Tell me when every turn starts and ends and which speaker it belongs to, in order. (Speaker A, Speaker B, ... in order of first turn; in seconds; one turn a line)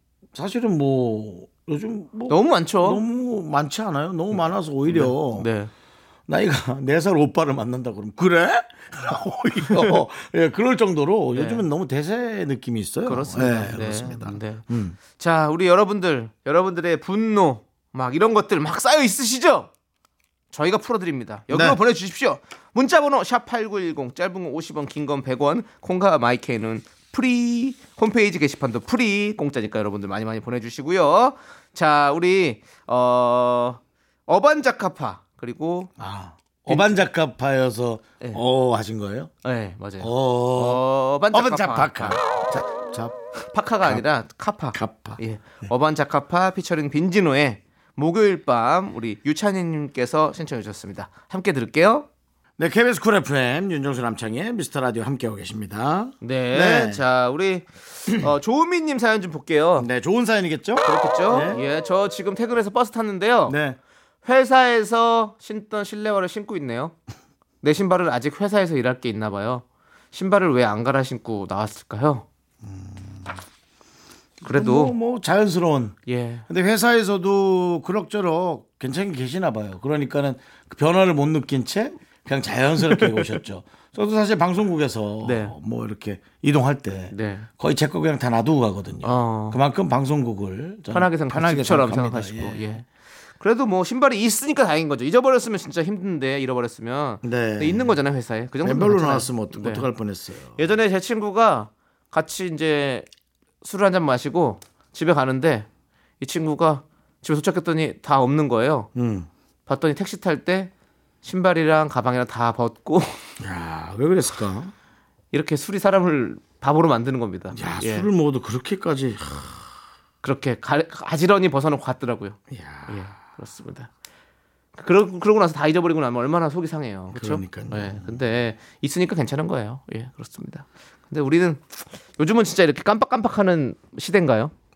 Speaker A: 0.3-5.5
Speaker B: 2.3-3.0
Speaker B: 4.9-5.7
Speaker A: 6.3-15.0
Speaker B: 11.3-11.6
Speaker B: 13.1-19.7
Speaker B: 20.5-35.9
Speaker A: 21.5-21.8
Speaker A: 36.0-39.3
Speaker B: 36.7-37.0
Speaker B: 39.4-42.2
Speaker A: 40.0-43.2
Speaker B: 43.5-52.1
Speaker A: 44.7-45.7
Speaker A: 52.6-57.0
Speaker B: 56.2-59.9
Speaker A: 59.8-61.6
Speaker B: 60.8-63.6
Speaker A: 63.5-63.8
Speaker B: 64.2-66.9
Speaker B: 67.6-72.2
Speaker A: 72.6-73.4
Speaker B: 74.4-75.0
Speaker A: 74.4-92.7
Speaker B: 76.1-76.4
Speaker B: 82.9-83.3
Speaker B: 85.2-85.5
Speaker B: 87.1-87.5
Speaker B: 89.0-89.6
Speaker B: 90.9-92.8
Speaker B: 93.4-99.8
Speaker A: 97.2-98.0
Speaker A: 98.6-100.6
Speaker B: 100.6-103.0
Speaker B: 103.6-105.7
Speaker B: 106.2-108.9
Speaker A: 108.9-109.3
Speaker B: 109.7-110.7
Speaker B: 111.2-113.2
Speaker A: 113.4-114.7
Speaker B: 115.3-118.1
Speaker A: 117.5-119.7
Speaker B: 120.2-123.9
Speaker A: 122.5-123.0
Speaker B: 124.8-134.5
Speaker A: 127.1-128.2